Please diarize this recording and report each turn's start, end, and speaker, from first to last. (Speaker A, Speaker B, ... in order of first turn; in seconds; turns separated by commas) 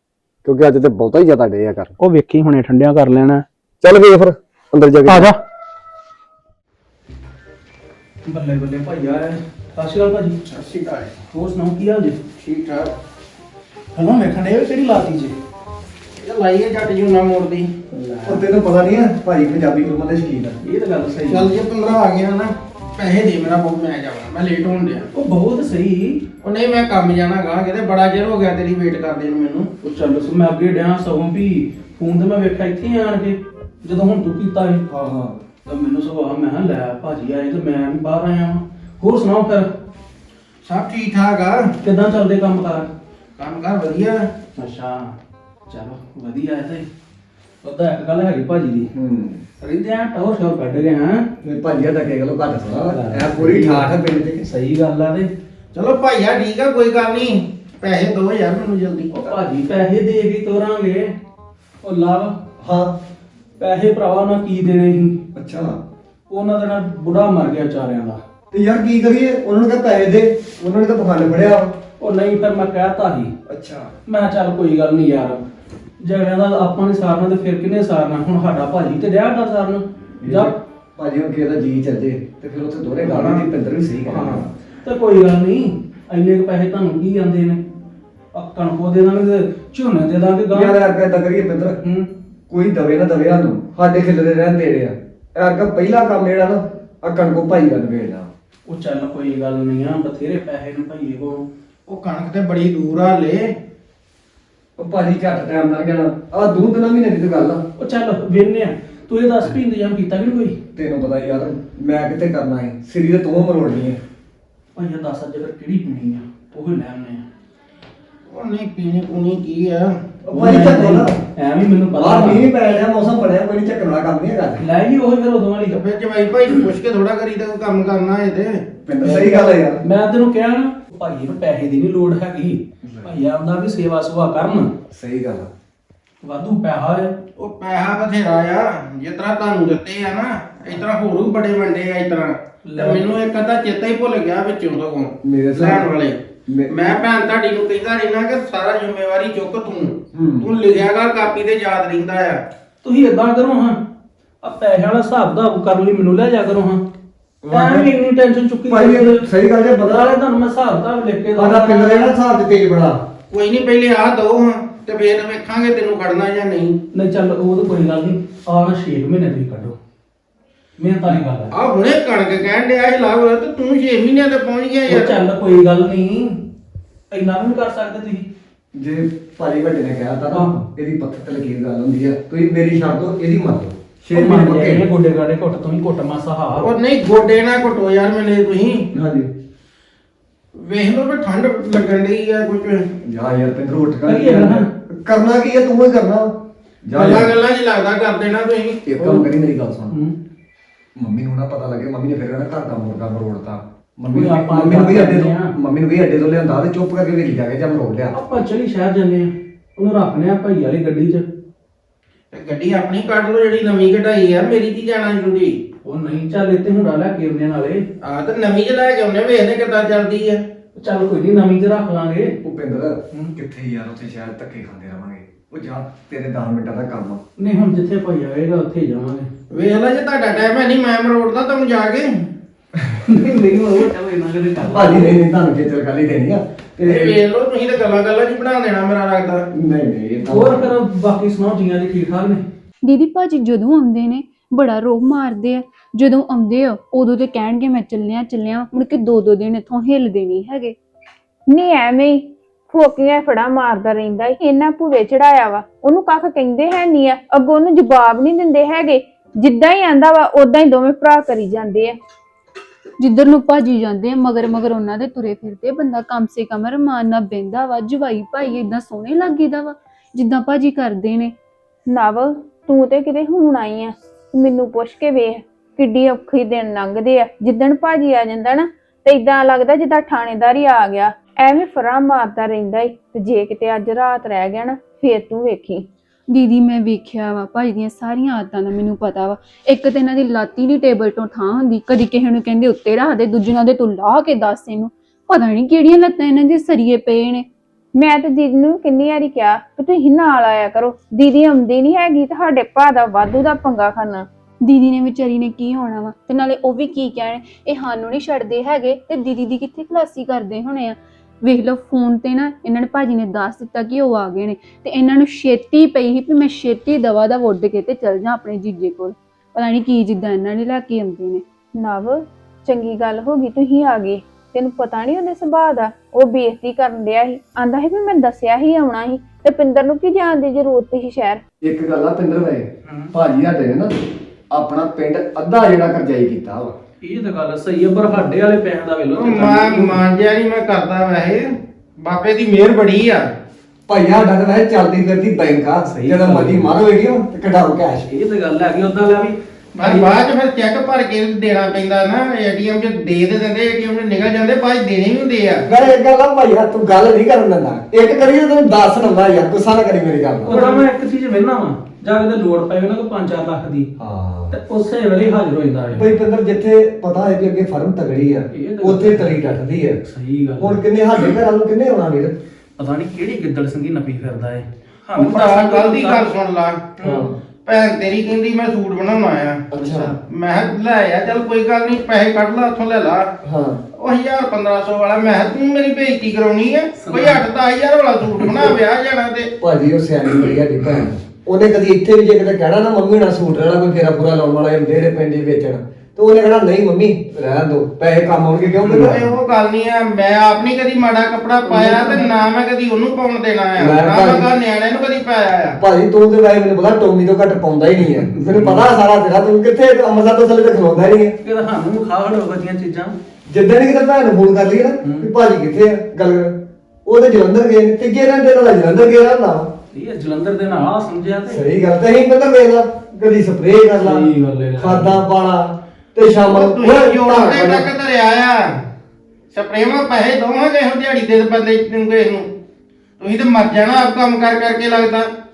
Speaker A: 0.4-1.9, Speaker B: 2.0-3.4, Speaker A: 3.8-5.3, Speaker B: 5.0-5.4, Speaker B: 8.2-10.4, Speaker C: 10.4-11.2, Speaker B: 11.3-12.2, Speaker C: 12.4-12.9, Speaker B: 13.9-15.3, Speaker C: 16.2-17.7, Speaker B: 17.9-18.4, Speaker A: 18.2-20.6, Speaker B: 20.6-21.5, Speaker C: 21.3-25.1, Speaker B: 25.1-26.2, Speaker C: 26.4-29.7, Speaker B: 29.8-34.8, Speaker A: 34.9-35.4, Speaker B: 35.6-39.7, Speaker C: 40.6-41.7, Speaker B: 41.8-42.9, Speaker C: 43.4-44.3, Speaker B: 44.5-45.1, Speaker B: 45.7-46.9, Speaker B: 47.6-48.9, Speaker A: 48.9-49.4, Speaker B: 49.6-51.2, Speaker A: 51.4-54.5, Speaker B: 52.9-53.9, Speaker B: 54.4-55.3, Speaker C: 55.7-59.1, Speaker B: 59.1-61.1, Speaker B: 61.8-62.3, Speaker A: 62.6-63.0, Speaker B: 63.6-65.2, Speaker A: 65.3-65.8, Speaker B: 66.3-68.2, Speaker A: 68.5-71.7, Speaker B: 72.0-73.3, Speaker A: 73.5-73.9, Speaker B: 74.1-75.5, Speaker B: 76.0-80.5, Speaker A: 80.2-84.5, Speaker B: 83.0-83.4, Speaker B: 84.1-87.6, Speaker B: 88.3-90.8, Speaker A: 90.5-91.8, Speaker B: 91.8-92.1, Speaker A: 92.5-98.3, Speaker B: 98.7-101.5, Speaker C: 101.9-103.5, Speaker A: 104.8-107.6, Speaker B: 107.8-110.6, Speaker A: 110.7-114.0, Speaker B: 114.7-117.2, Speaker C: 118.3-119.9, Speaker A: 120.2-121.2, Speaker B: 120.3-122.5, Speaker A: 121.9-124.6, Speaker B: 124.6-125.8, Speaker C: 125.7-128.6, Speaker A: 128.8-129.8, Speaker B: 129.0-134.7, Speaker A: 132.8-133.1, Speaker A: 134.9-135.5, Speaker B: 136.2-137.2, Speaker C: 137.3-146.2, Speaker B: 142.6-143.1, Speaker A: 145.2-145.9, Speaker A: 146.5-146.9, Speaker C: 146.7-152.4, Speaker A: 150.1-150.5, Speaker B: 152.8-153.8, Speaker B: 154.4-156.8, Speaker A: 157.4-157.9, Speaker B: 157.5-159.2, Speaker A: 158.7-160.1, Speaker B: 159.8-162.1, Speaker A: 161.3-163.0, Speaker C: 163.3-166.8, Speaker B: 166.9-169.8, Speaker B: 170.8-171.5, Speaker C: 171.5-175.1, Speaker B: 174.9-176.4, Speaker B: 177.1-178.3, Speaker A: 178.7-184.8, Speaker B: 184.1-186.7, Speaker C: 186.6-188.8, Speaker A: 188.9-189.3, Speaker C: 190.5-192.8, Speaker A: 193.0-196.3, Speaker B: 194.1-194.7, Speaker A: 196.8-197.3, Speaker C: 196.9-198.8, Speaker A: 198.8-199.9, Speaker B: 199.0-199.2, Speaker A: 201.0-208.2, Speaker B: 204.1-205.5, Speaker B: 208.1-211.2, Speaker C: 212.3-215.6, Speaker B: 215.8-217.8, Speaker C: 218.0-220.4, Speaker B: 220.8-222.3, Speaker A: 222.4-227.2, Speaker B: 227.4-229.3, Speaker C: 229.5-232.1, Speaker B: 233.0-235.2, Speaker A: 234.6-237.2, Speaker C: 236.8-239.4, Speaker A: 239.5-240.7, Speaker B: 240.2-242.4, Speaker D: 242.8-250.8, Speaker E: 251.5-261.9, Speaker D: 263.0-271.3, Speaker E: 271.9-285.9, Speaker D: 286.3-297.4, Speaker E: 298.0-304.3, Speaker D: 304.6-321.4, Speaker E: 321.8-331.4, Speaker A: 331.6-333.9, Speaker B: 332.8-333.1, Speaker A: 334.5-336.7, Speaker B: 337.0-340.0, Speaker C: 339.1-343.3, Speaker A: 343.9-348.1, Speaker B: 345.8-346.7, Speaker B: 348.1-350.2, Speaker C: 349.8-355.6, Speaker A: 355.7-360.7, Speaker B: 360.4-363.9, Speaker A: 364.0-364.6, Speaker B: 364.5-366.1, Speaker A: 365.9-370.0, Speaker B: 368.5-369.4, Speaker B: 370.0-370.8, Speaker A: 370.6-372.4, Speaker B: 372.8-376.3, Speaker C: 375.2-376.9, Speaker B: 377.0-377.3, Speaker A: 377.0-377.4, Speaker C: 377.6-383.3, Speaker A: 379.7-380.1, Speaker A: 383.4-383.8, Speaker C: 383.9-389.5, Speaker B: 386.9-387.4, Speaker A: 389.6-399.3, Speaker B: 398.9-399.1, Speaker C: 399.0-405.8, Speaker B: 401.6-402.3, Speaker A: 403.8-404.5, Speaker A: 405.8-411.4, Speaker B: 408.1-408.9, Speaker B: 411.4-413.1, Speaker A: 413.5-419.7, Speaker B: 415.0-415.3, Speaker B: 419.9-421.6, Speaker A: 421.4-427.9, Speaker B: 424.0-425.2, Speaker C: 426.4-428.8, Speaker C: 429.5-432.5, Speaker C: 433.2-435.3